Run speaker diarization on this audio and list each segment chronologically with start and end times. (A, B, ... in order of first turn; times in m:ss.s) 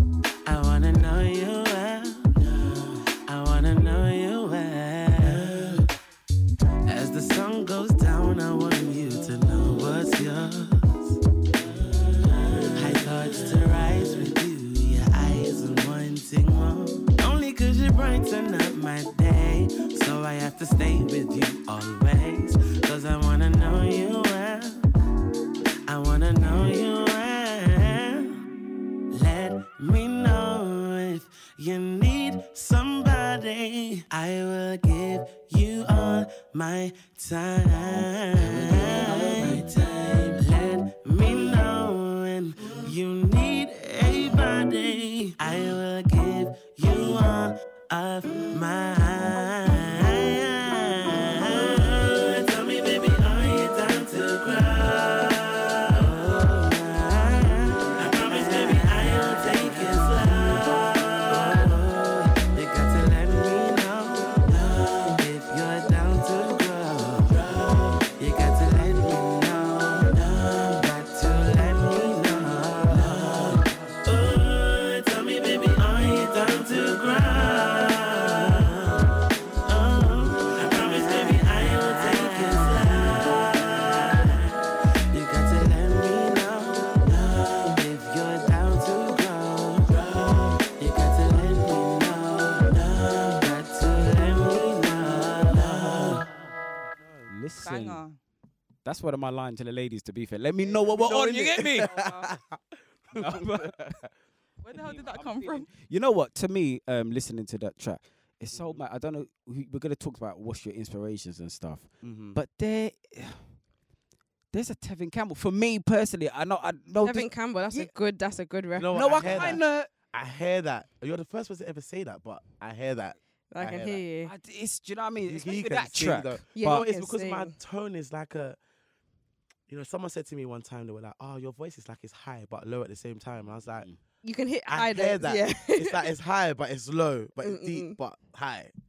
0:00.4-0:05.9 A
0:06.8-0:24.9 A
0:25.9-0:28.4 A
0:29.1-1:24.6 A
1:25.1-1:36.3 A
1:37.0-1:37.3 B
1:37.3-1:38.0 C
1:37.6-1:38.2 D
1:38.8-1:42.0 C
1:40.6-1:41.2 D
1:40.8-1:44.1 B
1:41.8-1:42.3 D
1:43.1-1:44.0 C
1:44.6-1:45.7 D
1:44.7-1:53.5 C
1:48.5-1:48.8 B
1:52.0-1:52.4 B
1:54.5-1:57.9 C
1:57.0-1:59.6 E
1:58.8-2:04.0 B
1:58.9-1:59.9 C
2:03.5-2:04.3 E
2:04.2-2:06.8 C
2:05.2-2:08.6 B
2:06.5-2:07.5 E
2:09.7-2:13.9 B
2:14.2-2:16.1 E
2:14.7-2:18.7 B
2:17.4-2:18.0 E